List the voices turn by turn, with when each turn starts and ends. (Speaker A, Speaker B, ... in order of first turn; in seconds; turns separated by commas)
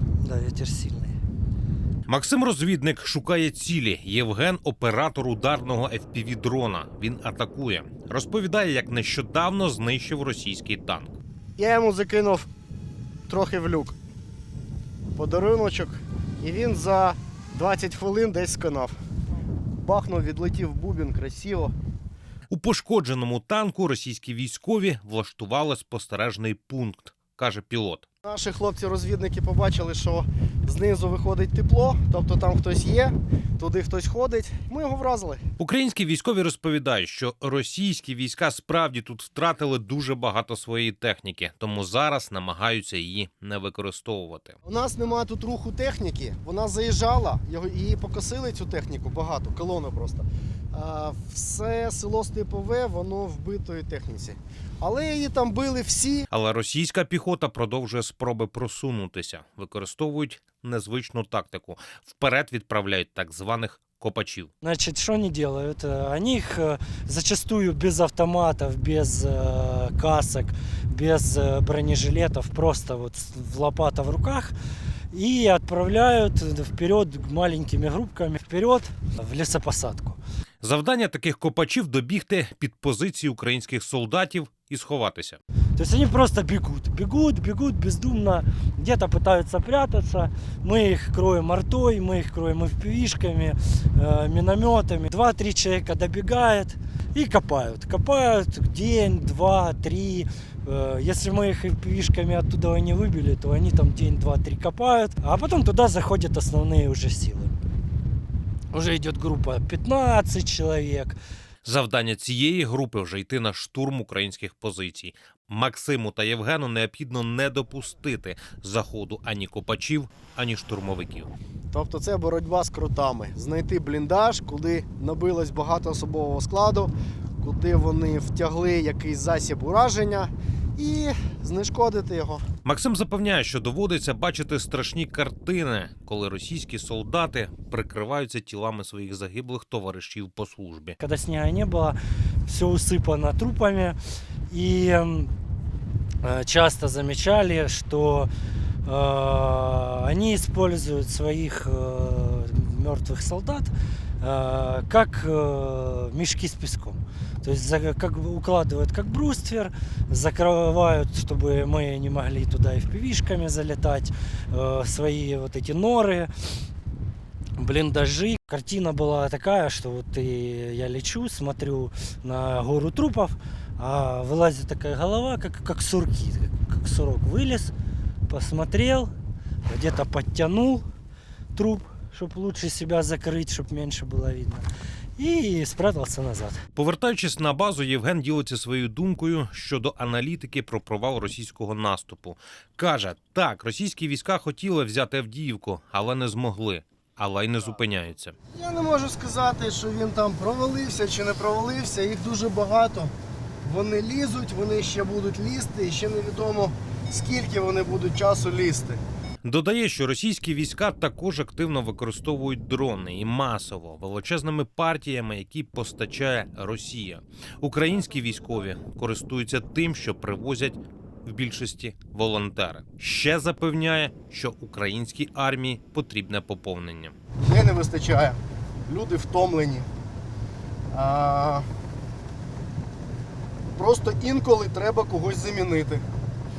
Speaker A: 0.2-1.1, Speaker B: 2.1-11.1, Speaker C: 11.6-12.5, Speaker C: 13.3-14.0, Speaker C: 15.1-18.9, Speaker C: 19.8-21.7, Speaker B: 22.5-28.0, Speaker C: 28.2-35.4, Speaker B: 35.6-44.5, Speaker C: 44.6-56.2, Speaker B: 56.3-64.5, Speaker A: 64.6-74.5, Speaker A: 75.1-80.2, Speaker B: 80.6-85.4, Speaker A: 85.8-107.5, Speaker A: 108.7-111.2, Speaker B: 111.7-121.3, Speaker C: 121.7-132.4, Speaker B: 132.7-141.0, Speaker A: 141.0-144.0, Speaker A: 144.5-145.3, Speaker A: 146.2-148.3, Speaker A: 148.8-166.3, Speaker A: 167.6-177.7, Speaker A: 178.3-179.1, Speaker A: 179.7-180.8, Speaker A: 181.6-184.7, Speaker A: 185.2-186.6, Speaker B: 186.8-198.3, Speaker C: 198.5-203.1, Speaker C: 203.6-209.0, Speaker B: 209.4-227.2, Speaker C: 227.4-229.9, Speaker C: 230.9-231.7, Speaker C: 233.8-236.0